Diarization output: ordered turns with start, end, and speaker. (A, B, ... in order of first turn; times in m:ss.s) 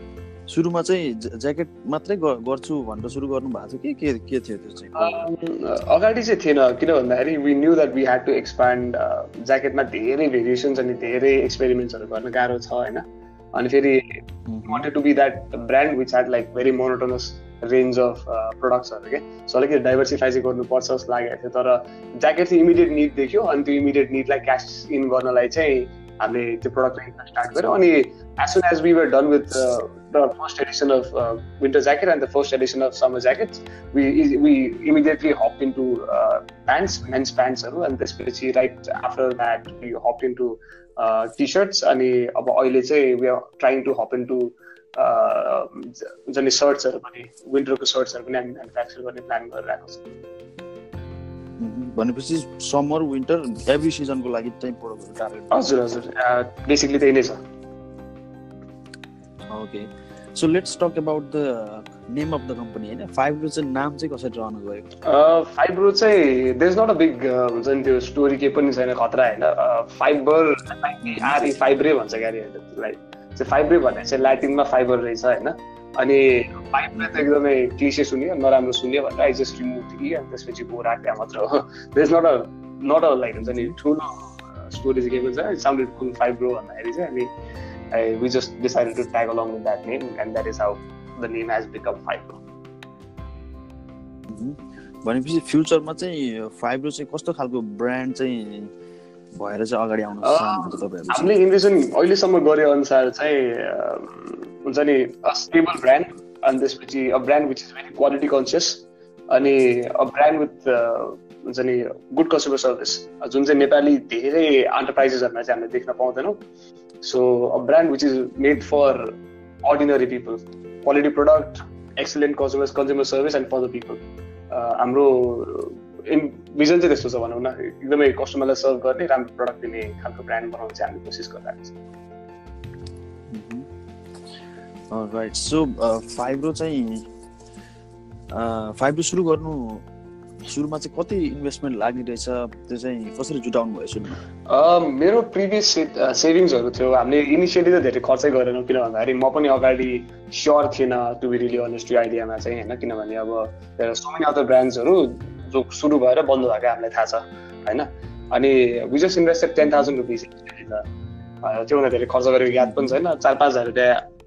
0:00.5-0:05.2 A
0:05.0-0:50.0 B
0:14.5-0:14.9 A
0:51.6-0:55.6 A
0:55.5-0:57.4 B
0:59.5-1:04.8 A
1:05.0-1:27.3 B
1:11.0-1:11.4 A
1:17.0-1:17.2 A
1:23.4-1:23.7 A
1:27.9-1:32.4 B
1:34.3-1:38.7 A
1:39.3-1:41.3 A
1:40.2-1:56.4 B
1:57.0-2:11.7 B
2:13.3-2:13.7 A
2:14.9-2:17.1 A
2:18.3-2:19.8 A
2:20.4-2:24.2 A
2:24.5-2:40.8 B
2:39.6-2:39.9 A
2:41.4-2:44.0 B
2:42.6-2:42.9 A